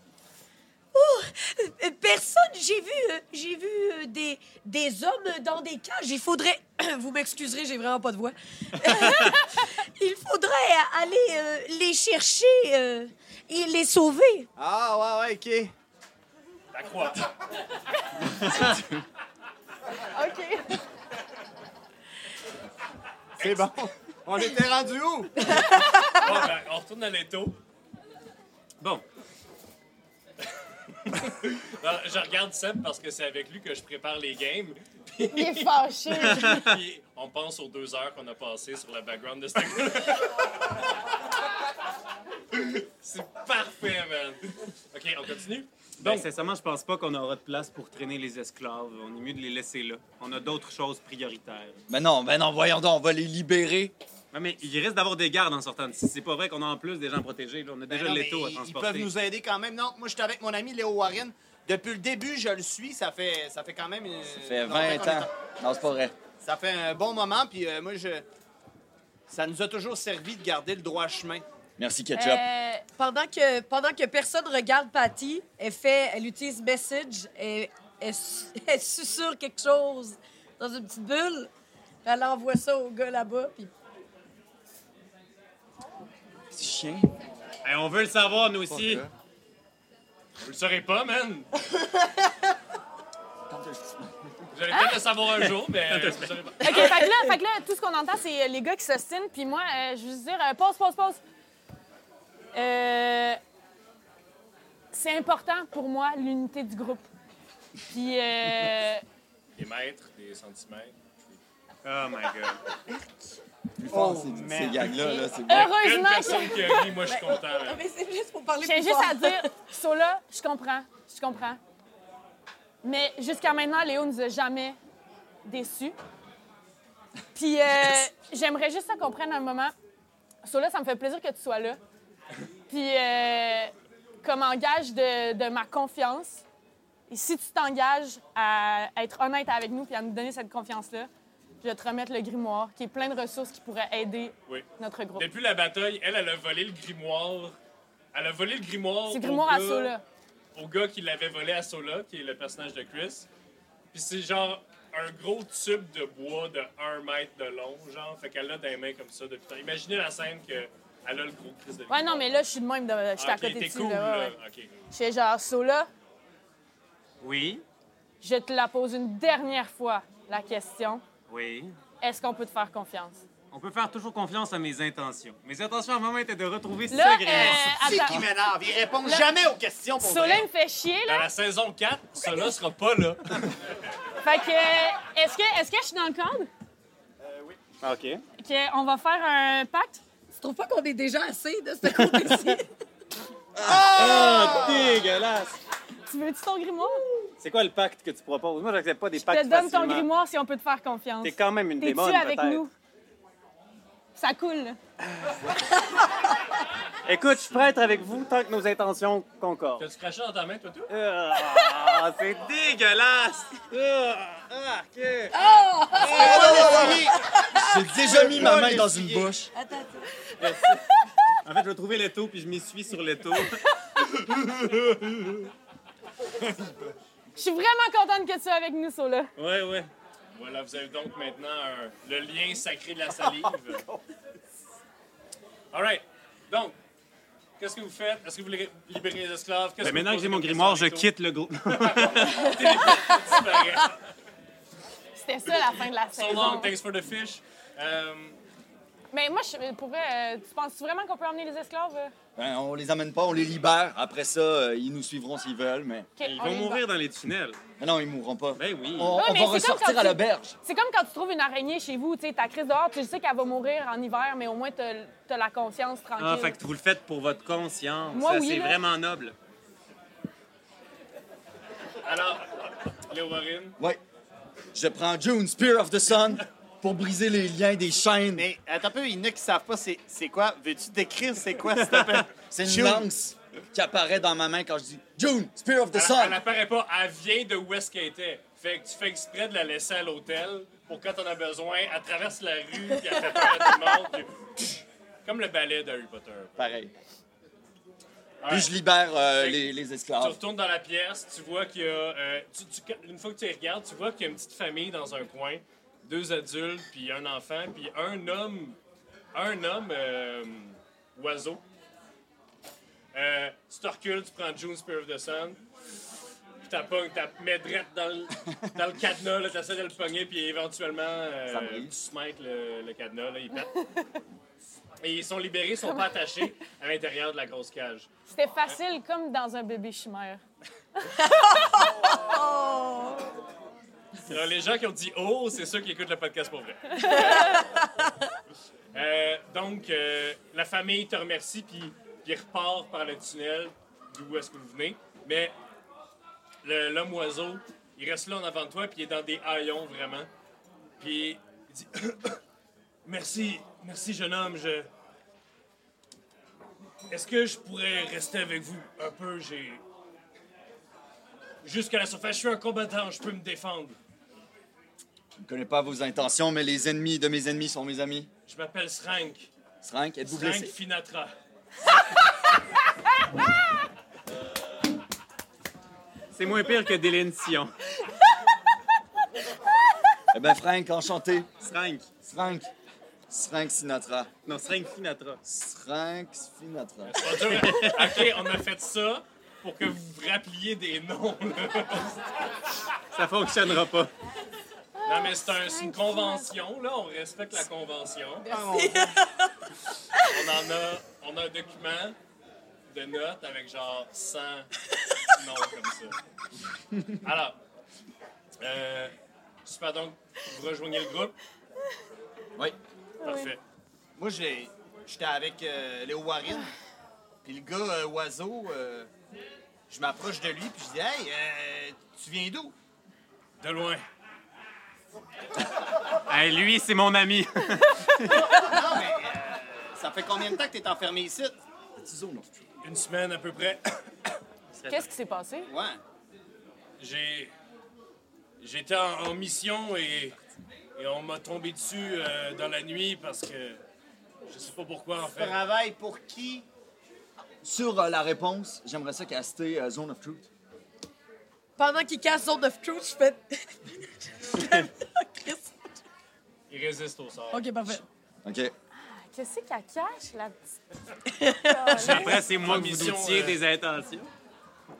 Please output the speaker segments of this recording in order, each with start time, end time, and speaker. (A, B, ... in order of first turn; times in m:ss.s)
0:00.9-0:14.5 A
0:08.9-0:09.3 B
0:14.6-0:15.7 C
0:16.7-0:17.3 D
0:20.0-0:20.8 E
0:23.4-0:23.7 D
0:23.4-0:25.7 C
0:26.1-0:27.6 D
0:31.0-0:40.8 D
0:35.3-0:36.6 E
0:36.4-0:36.7 B
0:42.5-0:46.3 D
0:46.0-0:51.8 B
0:51.9-0:53.9 F
0:54.3-0:59.1 B
0:57.9-1:05.3 C
1:04.4-1:06.1 F
1:06.4-1:08.2 C
1:09.3-1:11.4 C
1:11.8-1:12.4 F
1:12.1-1:12.8 E
1:13.0-1:21.5 A
1:22.0-1:23.7 A
1:26.5-1:27.1 F
1:27.6-1:29.0 B
1:28.7-1:29.1 F
1:30.4-1:31.5 D
1:33.5-1:34.2 F
1:34.5-1:36.9 D
1:34.7-1:35.0 E
1:35.9-1:36.4 B
1:36.6-1:41.2 E
1:42.5-1:43.4 E
1:44.9-1:47.1 E
1:47.9-1:49.0 E
1:49.6-1:51.4 D
1:51.8-1:52.6 B
1:53.8-1:55.7 F
1:53.9-1:54.9 B
1:55.0-1:56.8 E
1:55.5-1:57.8 D
1:57.0-1:59.5 A
1:58.6-2:01.6 E
2:02.8-2:04.8 E
2:05.4-2:06.0 E
2:07.3-2:09.7 E
2:10.4-2:11.8 E
2:12.7-2:16.4 E
2:17.1-2:21.1 E
2:21.6-2:25.3 E
2:24.5-2:27.6 D
2:28.1-2:29.9 D
2:29.1-2:30.0 E
2:30.5-2:33.3 D
2:33.9-2:42.4 D
2:41.9-2:44.3 E
2:43.2-2:44.7 D
2:44.9-2:45.9 E
2:47.2-2:47.6 B
2:48.2-2:51.0 E
2:51.3-2:51.7 B
2:52.0-2:53.2 E
2:53.5-2:57.8 B
2:56.9-2:58.3 E
2:57.3-3:00.4 C
3:00.0-3:01.3 E
3:01.1-3:03.6 D
3:04.2-3:06.5 E
3:07.2-3:07.6 C
3:07.8-3:08.2 B
3:08.4-3:10.0 E
3:10.4-3:12.7 A
3:11.9-3:12.5 B
3:13.6-3:15.0 C
3:13.6-3:15.6 B
3:13.7-3:14.1 F
3:16.1-3:17.0 E
3:17.4-3:20.1 B
3:19.2-3:22.7 E
3:21.2-3:22.6 B
3:24.2-3:24.8 E
3:25.1-3:25.5 B
3:27.0-3:29.9 B
3:29.8-3:30.9 D
3:30.9-3:35.4 B
3:35.3-3:36.6 A
3:36.0-3:37.2 C
3:36.0-3:36.6 B
3:36.4-3:39.5 F
3:37.8-3:39.3 C
3:39.5-3:41.1 A
3:40.4-3:40.8 B
3:41.4-3:43.6 B
3:44.9-3:45.3 B
3:47.3-3:49.3 E
3:49.4-3:49.9 B
3:50.3-3:53.8 D
3:55.7-3:56.8 D
3:57.6-4:01.1 D
3:59.8-4:02.8 B
4:01.7-4:04.0 D
4:05.2-4:06.7 E
4:06.1-4:08.4 D
4:09.1-4:12.1 E
4:12.4-4:16.1 F
4:16.2-4:16.8 E
4:16.2-4:17.6 B
4:17.8-4:20.5 F
4:18.6-4:19.2 B
4:19.1-4:26.6 E
4:26.2-4:29.3 B
4:28.1-4:28.8 E
4:32.0-4:33.8 D
4:34.7-4:38.5 F
4:38.3-4:43.1 C
4:42.5-4:46.4 F
4:45.9-4:56.6 D
4:56.6-4:56.9 F
4:58.4-4:58.7 D
4:58.5-5:00.4 F
4:59.3-5:08.8 D
5:09.3-5:11.6 D
5:13.1-5:15.6 D
5:16.6-5:23.7 D
5:21.5-5:21.9 F
5:25.0-5:28.1 D
5:28.3-5:30.4 E
5:31.1-5:31.6 E
5:31.2-5:33.3 A
5:34.2-5:37.6 D
5:37.0-5:37.6 E
5:37.2-5:37.8 A
5:38.9-5:45.5 D
5:46.6-5:50.3 D
5:51.0-5:52.4 D
5:53.0-5:54.9 D
5:57.1-5:59.8 D
6:01.6-6:04.0 D
6:05.4-6:08.3 F
6:08.5-6:09.5 D
6:09.8-6:10.7 F
6:10.2-6:11.3 D
6:16.3-6:17.7 B
6:20.3-6:21.5 F
6:21.6-6:22.1 B
6:22.2-6:22.7 F
6:23.3-6:24.3 F
6:24.4-6:25.4 B
6:25.4-6:27.4 F
6:27.0-6:32.3 D
6:27.5-6:28.2 B
6:33.1-6:34.1 B
6:35.0-6:36.5 E
6:35.0-6:38.7 D
6:38.5-6:39.1 C
6:38.6-6:39.5 A
6:40.2-6:42.2 D
6:42.9-6:44.7 D
6:45.3-6:46.2 D
6:47.2-6:47.6 D
6:48.6-6:49.1 D
6:49.6-6:51.4 D
6:53.2-6:53.5 E
6:53.2-6:53.6 D
6:54.2-6:56.7 C
6:57.4-6:59.1 C
6:59.9-7:02.7 C
7:03.6-7:04.0 D
7:06.3-7:08.5 B
7:08.3-7:11.6 C
7:12.0-7:12.5 F
7:12.8-7:14.3 D
7:14.9-7:15.7 E
7:15.7-7:16.0 C
7:17.0-7:17.5 D
7:18.6-7:20.4 D
7:21.0-7:23.8 D
7:24.5-7:25.6 D
7:25.3-7:26.7 C
7:27.6-7:30.5 F
7:31.8-7:35.9 A
7:36.7-7:38.0 D
7:37.5-7:38.0 A
7:38.4-7:38.7 F
7:39.0-7:40.8 E
7:41.4-7:42.2 A
7:41.5-7:42.4 E
7:42.0-7:43.6 D
7:42.0-7:44.3 B